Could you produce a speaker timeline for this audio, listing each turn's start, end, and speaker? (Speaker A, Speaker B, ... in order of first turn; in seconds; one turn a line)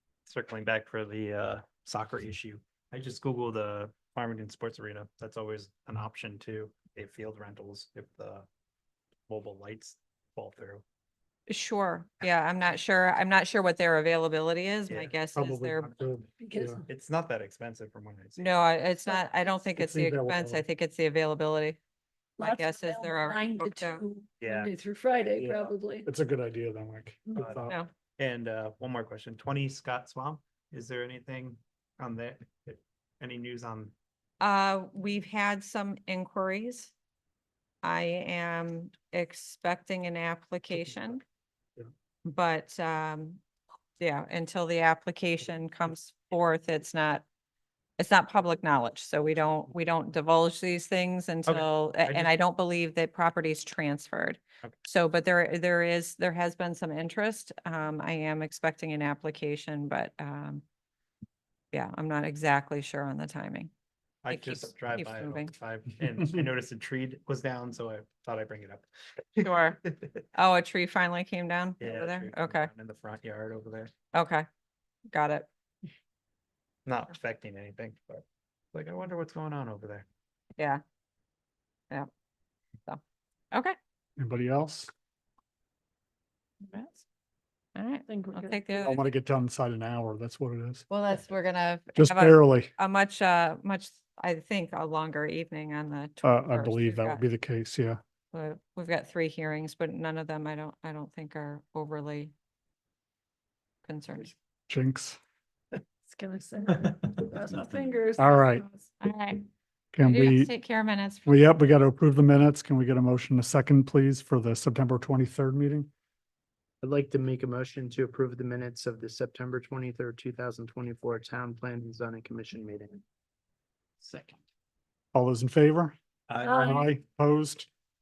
Speaker A: 0.3-8.5
Speaker A: 9.3-10.8
Speaker B: 11.5-16.0
Speaker A: 14.9-15.2
Speaker C: 15.3-16.8
Speaker D: 16.4-16.8
Speaker A: 16.9-18.5
Speaker B: 18.4-21.8
Speaker C: 19.8-20.6
Speaker B: 22.4-24.0
Speaker D: 22.4-26.1
Speaker A: 24.4-24.7
Speaker C: 25.4-27.8
Speaker A: 27.4-33.9
Speaker B: 34.4-36.9
Speaker B: 37.8-41.2
Speaker C: 40.8-41.0
Speaker B: 42.2-43.4
Speaker B: 44.0-47.2
Speaker B: 48.0-60.6
Speaker A: 51.5-52.4
Speaker B: 61.7-63.7
Speaker A: 64.2-70.1
Speaker B: 64.3-65.5
Speaker B: 69.4-69.8
Speaker B: 70.3-72.7
Speaker A: 71.8-73.9
Speaker B: 74.1-74.5
Speaker B: 75.1-75.5
Speaker A: 76.9-80.1
Speaker C: 84.2-84.9
Speaker B: 86.6-87.0
Speaker B: 87.8-89.0
Speaker D: 88.1-88.9
Speaker C: 88.8-90.9
Speaker B: 90.9-97.2
Speaker C: 92.0-92.7
Speaker C: 96.2-98.0
Speaker B: 98.3-102.3
Speaker B: 103.8-104.3
Speaker C: 104.7-105.2
Speaker D: 106.1-108.9
Speaker C: 108.2-108.6
Speaker B: 109.0-109.5
Speaker C: 109.9-110.5
Speaker B: 110.0-111.3
Speaker C: 111.2-115.9
Speaker E: 116.8-123.0
Speaker E: 124.0-124.4
Speaker C: 125.1-126.0
Speaker A: 126.3-126.8
Speaker D: 126.4-126.9
Speaker C: 126.5-127.7